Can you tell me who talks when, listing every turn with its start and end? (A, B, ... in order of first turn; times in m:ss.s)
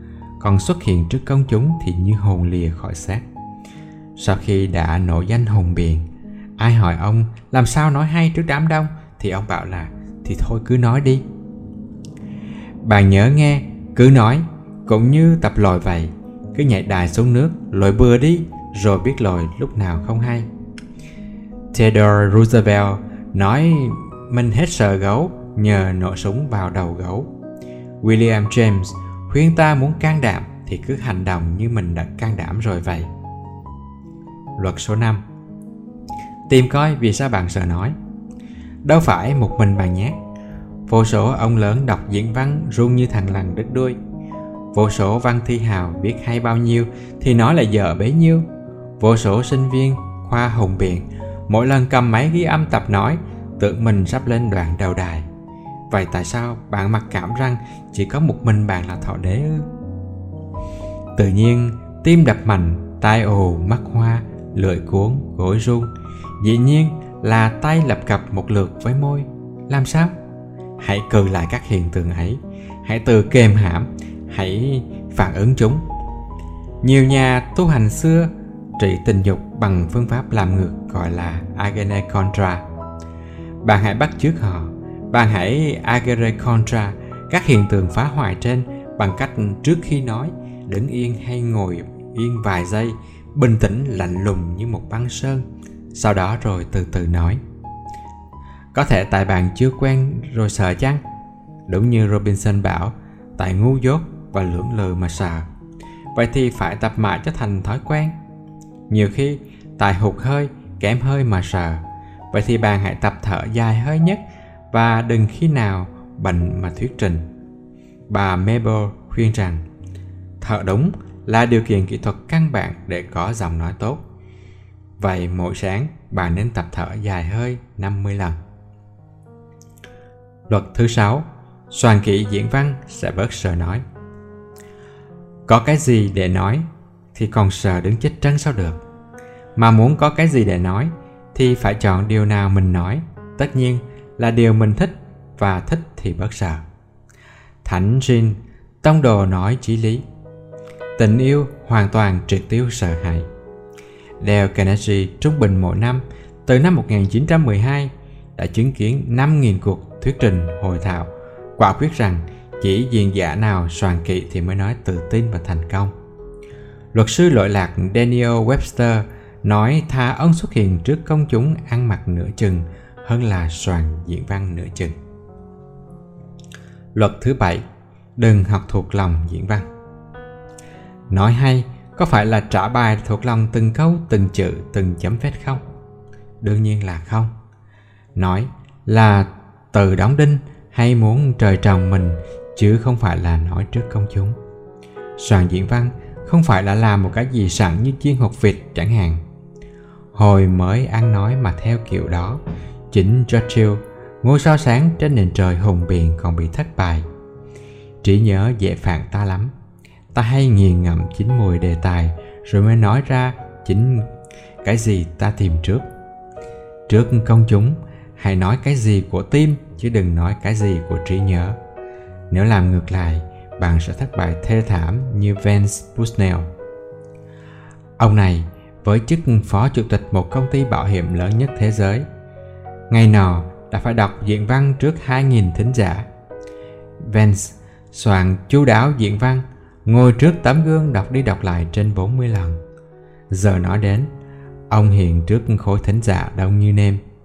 0:00.4-0:03.2 A
0:04.2-0:06.1 A
0:06.6-0:11.2 A
0:12.8-0:20.5 A
0:21.7-0:27.3 A
0:28.0-0:33.1 A
0:34.6-0:35.2 A
0:36.5-0:37.9 A
0:38.8-0:40.2 A
0:40.9-0:44.0 A
0:44.7-0:48.4 A
0:49.0-0:55.3 A
0:55.9-0:59.7 A
1:01.2-1:10.1 A
1:10.8-1:15.8 A
1:16.8-1:22.6 A
1:23.6-1:37.4 A
1:38.7-1:41.0 A
1:41.7-1:45.4 A
1:46.1-1:48.1 A
1:48.9-1:57.2 A
1:58.1-1:59.6 A
2:00.4-2:04.0 A
2:05.0-2:08.4 A
2:10.5-2:13.8 A
2:15.5-2:18.8 A
2:19.6-2:26.6 A
2:27.6-2:30.0 A
2:31.0-2:33.3 A
2:34.2-2:45.9 A
2:46.9-2:55.0 A
2:56.9-2:57.6 A
2:58.2-2:59.7 A
3:01.1-3:05.7 A
3:06.4-3:07.3 A
3:08.2-3:14.4 A
3:15.2-3:19.2 A
3:20.1-3:27.1 A
3:28.0-3:29.5 A
3:30.1-3:34.1 A
3:34.6-3:35.9 A
3:36.9-3:41.6 A
3:42.3-3:46.5 A
3:48.0-3:52.0 A
3:52.9-3:56.1 A
3:57.0-4:02.6 A
4:03.3-4:04.1 A
4:04.7-4:07.0 A